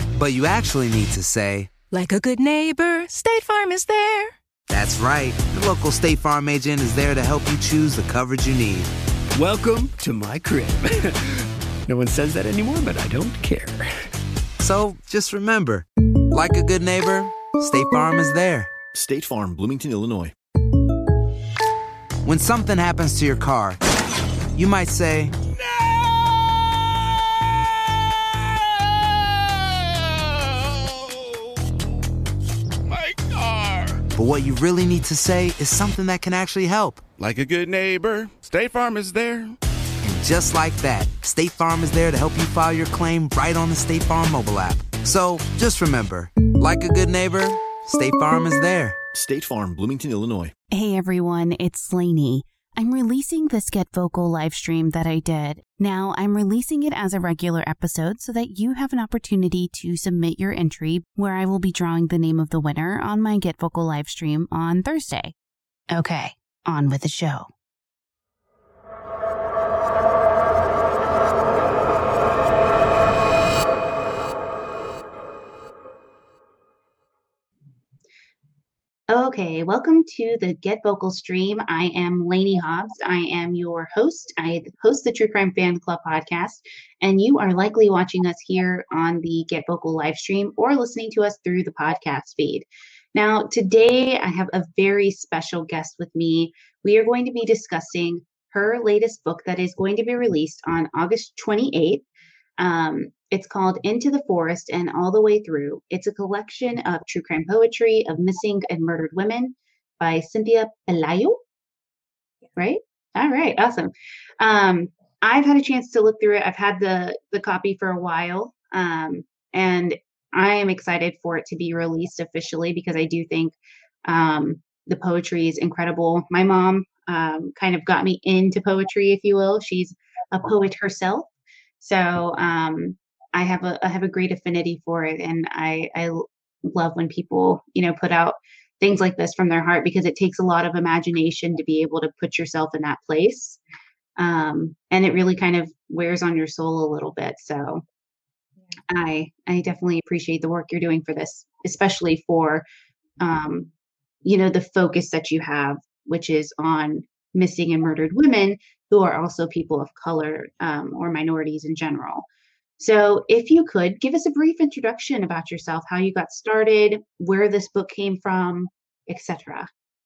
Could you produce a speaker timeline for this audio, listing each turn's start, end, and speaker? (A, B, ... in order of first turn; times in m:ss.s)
0:00.2-0:01.7 A
0:01.9-0:04.4 B
0:04.7-0:08.9 A
0:09.4-0:11.1 C
0:11.9-0:14.0 C
0:14.6-0:18.7 A
0:18.9-0:20.3 D
0:22.2-0:23.8 A
0:24.6-0:25.3 A
0:25.6-0:31.5 E
0:32.8-0:34.0 E
0:34.1-0:37.0 A
0:37.2-0:39.6 E
0:40.0-0:49.0 A
0:49.2-0:50.5 D
0:50.7-1:05.3 F
1:05.9-1:07.5 F
1:19.1-1:42.0 F
1:42.6-1:51.4 F
1:52.6-2:11.3 F
2:11.8-2:23.6 F
2:24.2-2:27.8 F
2:28.9-2:32.6 F
2:33.2-2:33.7 F
2:34.2-2:42.2 F
2:42.8-2:49.7 F